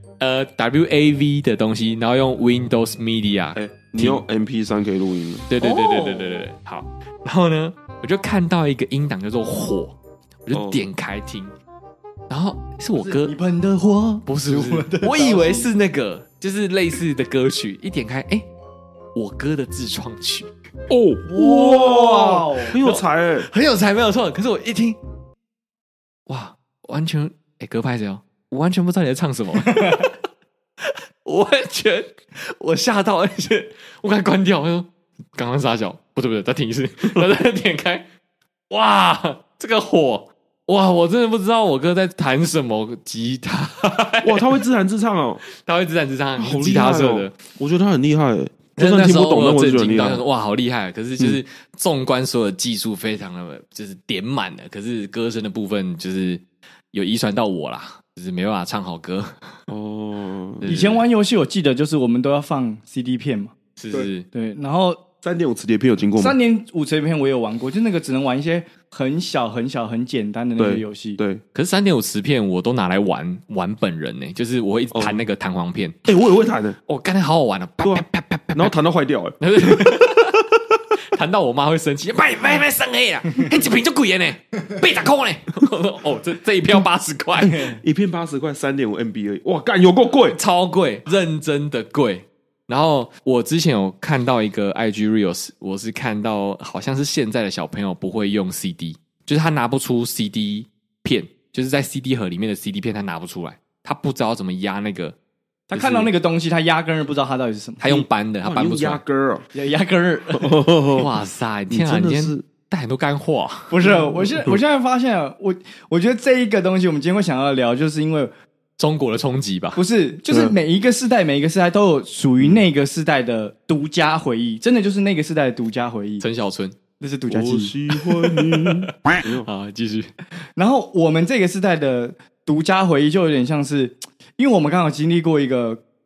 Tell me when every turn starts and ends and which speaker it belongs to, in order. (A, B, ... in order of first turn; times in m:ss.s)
0:00.2-0:04.2 A
0:03.6-0:05.5 B
0:05.5-0:11.5 A
0:05.6-0:06.4 C
0:10.5-0:10.9 B
0:12.3-0:13.3 A
0:13.0-0:15.7 C
0:14.3-0:18.5 A
0:19.2-0:20.5 A
0:20.9-0:23.5 B
0:21.3-0:22.8 C
0:22.8-0:25.0 A
0:26.3-0:30.1 A
0:29.7-0:30.0 C
0:30.8-0:38.1 A
0:38.7-0:44.6 A
0:44.2-0:45.4 B
0:45.5-0:47.4 A
0:46.4-0:50.2 B
0:48.8-0:59.5 A
0:59.7-1:00.6 B
1:00.6-1:01.0 A
1:00.6-1:03.5 C
1:03.8-1:04.3 A
1:04.3-1:05.0 C
1:05.2-1:06.4 B
1:06.2-1:11.2 C
1:10.6-1:11.4 B
1:11.5-1:16.0 A
1:14.9-1:15.2 B
1:16.1-1:16.8 B
1:16.9-1:18.7 A
1:17.8-1:19.8 B
1:19.4-1:20.5 A
1:21.1-1:27.8 A
1:27.4-1:30.4 B
1:30.3-1:45.2 A
1:45.7-1:48.0 C
1:45.8-1:46.1 A
1:47.8-1:49.0 A
1:48.4-1:49.4 B
1:49.5-1:50.7 C
1:50.4-1:51.1 B
1:50.9-1:53.7 A
1:51.7-1:52.5 B
1:53.7-1:58.3 C
1:53.8-1:54.6 B
1:58.8-1:59.8 A
1:59.8-2:06.2 C
2:00.3-2:00.6 B
2:02.4-2:02.6 B
2:06.2-2:06.8 A
2:07.0-2:07.8 C
2:07.3-2:09.5 B
2:08.0-2:10.1 A
2:10.6-2:15.8 C